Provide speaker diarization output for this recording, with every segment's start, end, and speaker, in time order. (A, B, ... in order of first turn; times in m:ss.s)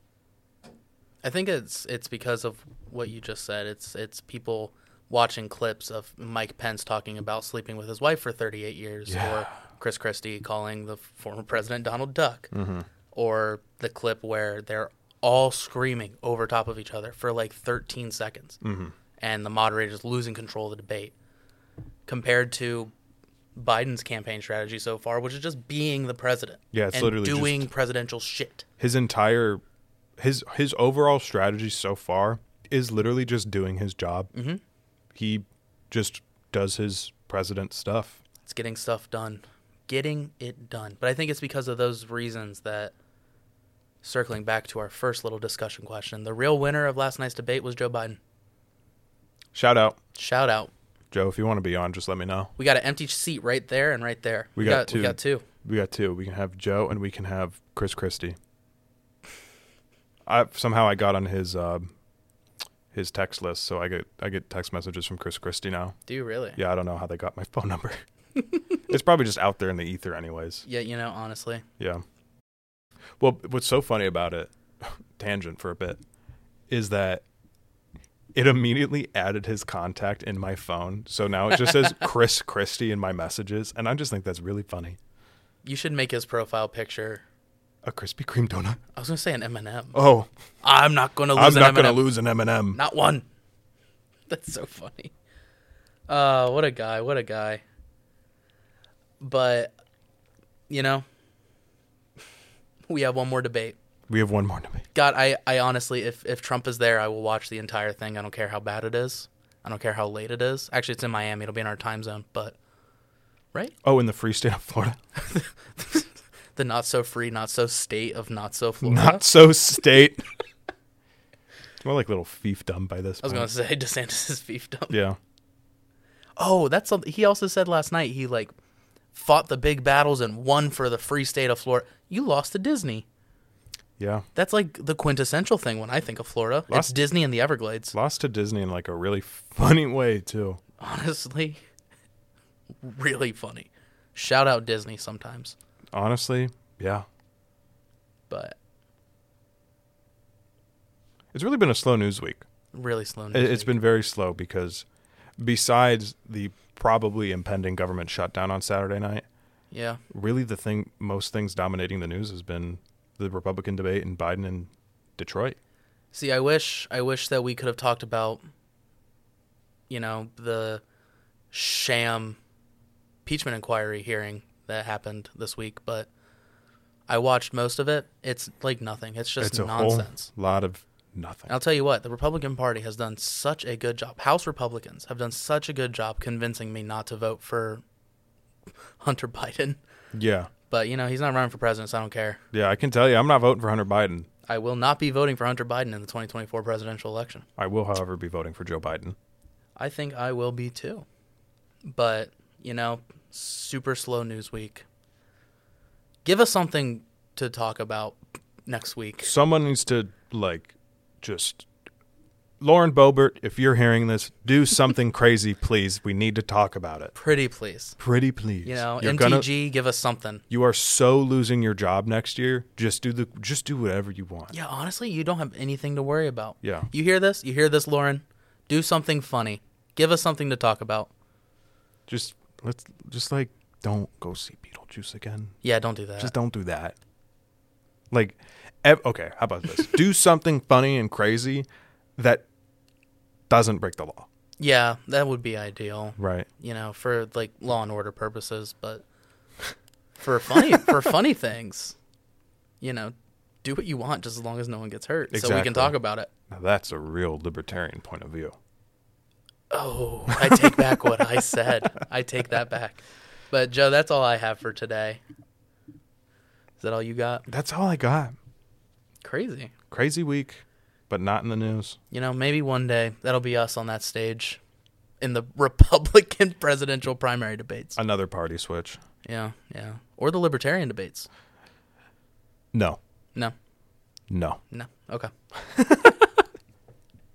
0:01.2-0:12.5 A
0:09.1-0:09.5 B
0:12.5-0:12.9 B
0:13.1-0:18.6 A
0:18.6-0:18.9 B
0:19.2-0:21.1 A
0:22.1-0:22.9 A
0:23.5-0:28.6 A
0:26.7-0:27.7 B
0:28.8-0:29.6 B
0:30.2-0:34.3 B
0:34.3-0:34.6 A
0:35.1-0:38.2 B
0:38.4-0:42.9 A
0:44.0-0:48.2 A
0:49.5-0:50.0 B
0:50.1-0:50.7 A
0:51.1-0:52.5 B
0:52.6-0:55.4 A
0:54.6-0:58.4 B
1:00.2-1:01.9 B
1:02.9-1:06.0 B
1:06.1-1:06.6 A
1:06.6-1:08.0 B
1:08.8-1:10.6 B
1:10.6-1:11.6 A
1:11.8-1:12.0 B
1:13.2-1:16.0 B
1:16.7-1:17.2 B
1:18.3-1:25.0 B
1:25.6-1:27.2 A
1:27.8-1:28.8 B
1:28.9-1:30.0 A
1:29.9-1:30.3 B
1:30.6-1:32.1 A
1:31.3-1:32.8 B
1:32.7-1:33.2 A
1:34.3-1:35.1 A
1:36.1-1:37.6 A
1:39.2-1:39.7 A
1:40.7-1:41.0 A
1:42.9-1:43.8 A
1:44.1-1:44.8 B
1:44.9-1:52.5 A
1:53.8-1:55.0 B
1:55.2-1:59.2 A
1:58.8-2:00.2 B
2:01.8-2:03.5 B
2:03.2-2:05.0 A
2:04.9-2:05.2 B
2:06.4-2:08.5 A
2:09.1-2:13.0 A
2:14.0-2:14.2 B
2:14.3-2:17.9 A
2:16.7-2:17.0 B
2:17.9-2:20.6 B
2:20.8-2:21.6 A
2:22.8-2:25.5 A
2:25.9-2:27.0 B
2:28.3-2:28.6 A
2:31.3-2:32.4 B
2:32.7-2:33.7 A
2:33.3-2:34.8 B
2:35.4-2:39.2 B
2:39.7-2:40.0 A
2:40.1-2:45.6 B
2:46.1-2:48.4 A
2:49.9-2:50.8 A
2:51.5-2:52.4 A
2:53.2-2:56.1 A
2:57.1-3:00.3 A
2:59.4-3:01.5 B
3:01.5-3:07.8 A
3:09.0-3:09.8 A
3:10.1-3:10.5 B
3:10.7-3:12.4 A
3:12.5-3:14.3 B
3:14.4-3:17.4 A
3:17.6-3:19.2 B
3:19.8-3:21.0 A
3:21.8-3:24.8 A
3:26.2-3:29.3 A
3:29.2-3:31.7 B
3:32.6-3:37.1 B
3:37.2-3:38.0 A
3:38.0-3:39.5 B
3:38.6-3:40.4 A
3:40.5-3:44.5 B
3:44.5-3:51.1 A
3:46.6-3:46.9 B
3:52.1-3:55.6 B
3:55.6-3:56.3 A
3:56.2-3:56.9 B
3:58.1-4:02.4 B
4:03.5-4:04.3 B
4:04.6-4:09.0 A
4:06.2-4:06.5 B
4:10.2-4:12.0 A
4:12.8-4:16.3 A
4:15.3-4:15.9 B
4:16.5-4:18.6 B
4:19.7-4:25.2 A
4:20.3-4:21.2 B
4:26.8-4:27.4 A
4:27.5-4:28.3 B
4:29.2-4:29.7 A
4:29.9-4:32.0 B
4:32.1-4:34.6 A
4:35.2-4:38.0 A
4:38.0-4:39.0 B
4:39.2-4:41.3 A
4:42.7-4:43.0 B
4:44.3-4:44.6 B
4:44.7-4:45.3 A
4:45.6-4:46.2 B